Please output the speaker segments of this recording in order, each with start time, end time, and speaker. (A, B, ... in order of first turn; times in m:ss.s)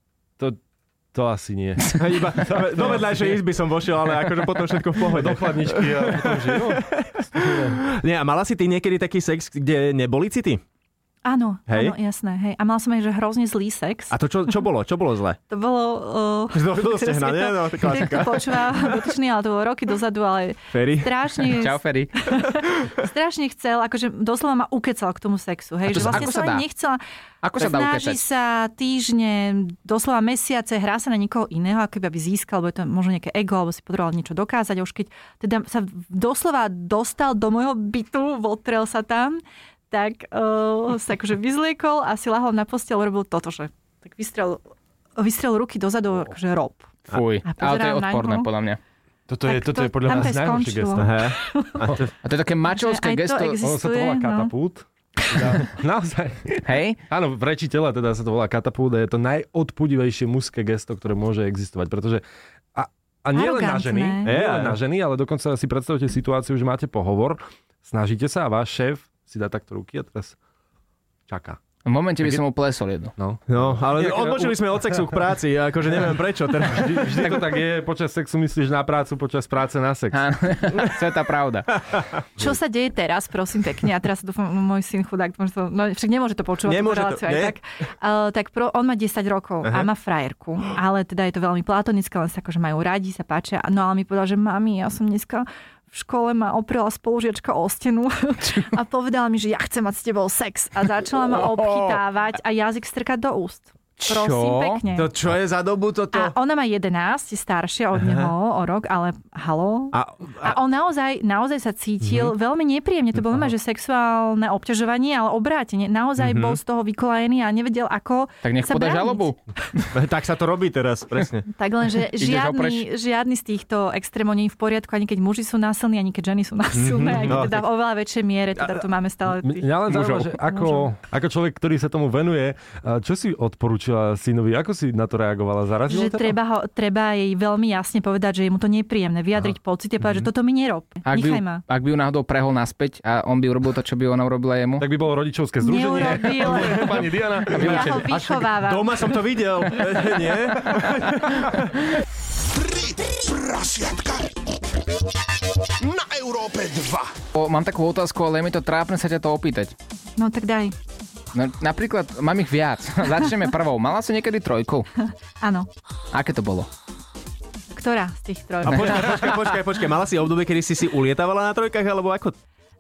0:01.1-0:03.4 A
0:02.0-0:10.6 B
0:05.1-0:07.8 A
0:11.2-0:14.2 C
0:11.7-0:12.0 B
0:14.1-0:15.4 B
0:15.5-0:27.0 C
0:16.5-0:19.0 B
0:20.7-0:21.1 B
0:21.5-0:22.1 D
0:25.9-0:26.6 D
0:27.4-0:28.2 D
0:27.6-0:39.4 C
0:39.9-0:44.6 C
0:45.2-0:46.9 C
0:47.1-0:48.8 D
0:47.4-0:48.5 C
0:49.3-0:51.1 A
0:49.4-0:51.8 C
0:51.0-0:52.0 B
0:52.2-0:53.6 D
0:52.7-0:54.5 C
0:53.6-1:02.2 A
0:55.2-0:55.5 C
0:56.6-0:57.0 D
1:02.7-1:10.4 A
1:03.3-1:04.4 C
1:04.3-1:04.8 B
1:11.3-1:11.6 A
1:11.8-1:13.1 D
1:13.2-1:15.2 A
1:13.5-1:17.4 B
1:16.7-1:20.2 A
1:20.1-1:21.8 D
1:21.8-1:22.2 B
1:22.4-1:45.1 C
1:26.7-1:27.6 B
1:41.4-1:42.0 D
1:44.0-1:44.8 D
1:44.9-1:46.4 B
1:46.1-1:59.3 C
1:48.0-1:48.3 B
1:49.9-1:50.6 B
1:56.2-1:56.6 B
1:58.4-1:59.9 D
1:59.9-2:01.5 B
2:01.5-2:09.7 C
2:02.2-2:02.8 D
2:06.7-2:07.6 B
2:08.6-2:08.8 B
2:09.4-2:16.4 A
2:09.9-2:10.3 D
2:10.5-2:10.8 C
2:15.9-2:21.6 C
2:21.1-2:24.9 D
2:24.8-2:28.1 A
2:25.6-2:29.0 C
2:27.5-2:28.1 D
2:28.1-2:31.7 B
2:32.5-2:34.4 E
2:35.8-2:37.1 E
2:37.3-2:39.7 D
2:40.2-2:40.8 C
2:41.3-2:44.9 D
2:45.0-2:45.7 C
2:46.1-2:46.7 D
2:47.8-2:49.3 C
2:48.7-2:52.4 B